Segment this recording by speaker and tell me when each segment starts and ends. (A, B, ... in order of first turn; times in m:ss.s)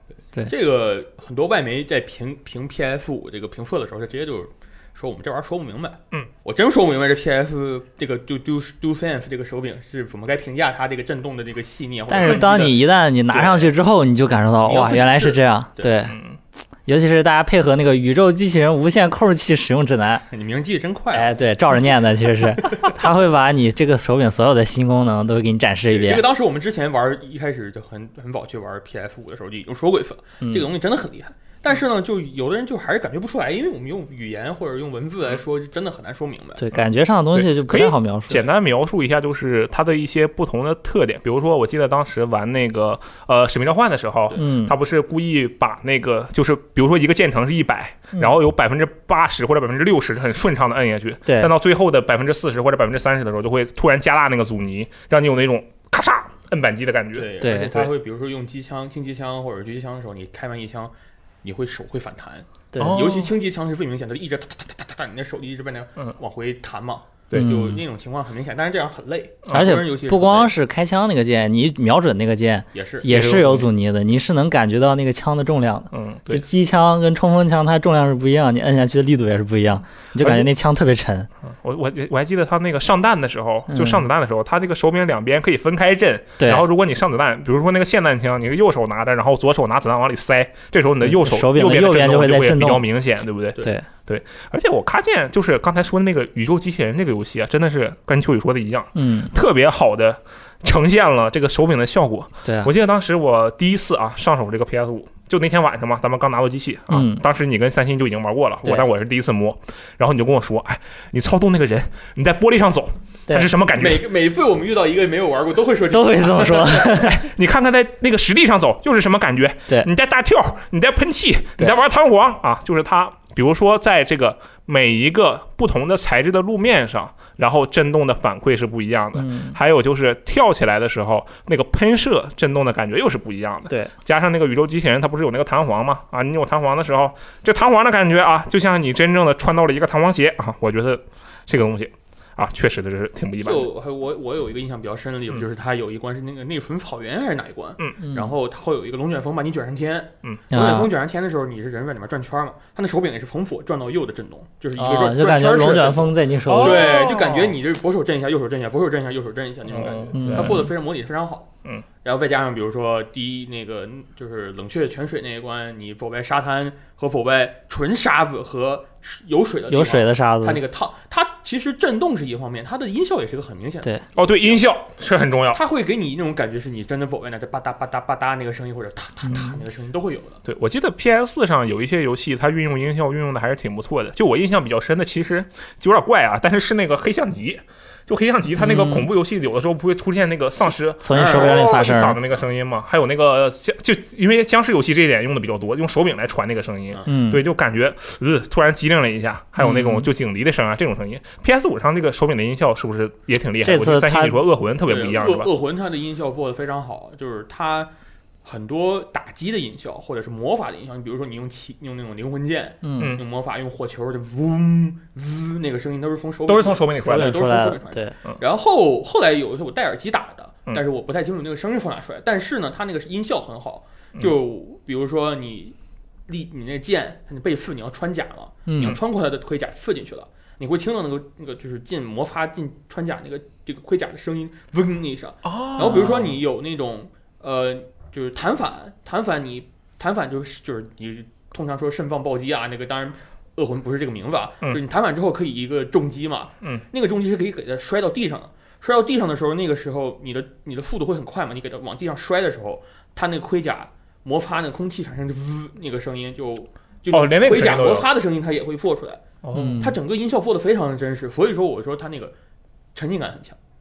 0:00.5-0:13.7 A
0:12.1-0:16.2 B
0:14.6-0:15.9 A
0:16.1-0:16.4 C
0:16.8-0:20.2 B
0:20.3-0:21.9 A
0:21.1-0:26.2 B
0:25.9-0:36.6 A
0:30.4-0:30.7 B
0:36.6-0:38.5 B
0:36.7-0:57.9 C
0:44.3-0:44.7 B
0:51.2-0:51.5 B
0:57.1-1:00.9 A
0:57.4-0:57.7 B
1:01.4-1:10.5 A
1:02.7-1:03.0 B
1:02.8-1:03.3 C
1:07.3-1:07.6 C
1:07.3-1:07.8 B
1:09.5-1:21.3 B
1:12.7-1:13.1 A
1:13.0-1:13.7 C
1:15.9-1:16.4 C
1:20.2-1:20.5 C
1:21.4-1:54.0 C
1:23.7-1:24.0 B
1:26.4-1:26.7 B
1:31.0-1:32.8 B
1:38.9-1:39.3 B
1:42.4-1:42.7 B
1:46.9-1:47.2 B
1:53.8-1:57.1 A
1:55.9-1:57.2 B
1:57.0-2:23.7 C
2:09.2-2:09.6 B
2:23.4-2:41.5 A
2:28.0-2:28.3 B
2:30.5-2:30.9 B
2:34.8-2:36.9 B
2:36.4-2:37.6 C
2:39.7-2:40.7 C
2:40.1-2:40.7 B
2:42.0-2:54.7 A
2:49.7-2:50.6 B
2:54.2-2:55.6 C
2:55.5-3:00.4 A
3:00.4-3:25.5 C
3:08.6-3:09.1 B
3:11.0-3:12.2 B
3:11.1-3:11.9 A
3:17.0-3:17.4 B
3:19.6-3:20.1 B
3:23.6-3:24.4 B
3:24.8-3:27.9 A
3:28.4-3:45.7 A
3:32.8-3:33.2 B
3:36.4-3:37.4 C
3:37.0-3:38.1 B
3:46.3-4:19.2 A
3:48.7-3:49.0 B
3:55.4-3:56.3 C
4:17.1-4:18.1 C
4:19.4-4:19.8 C
4:19.5-4:20.0 B
4:19.8-4:22.3 A
4:22.9-4:23.6 A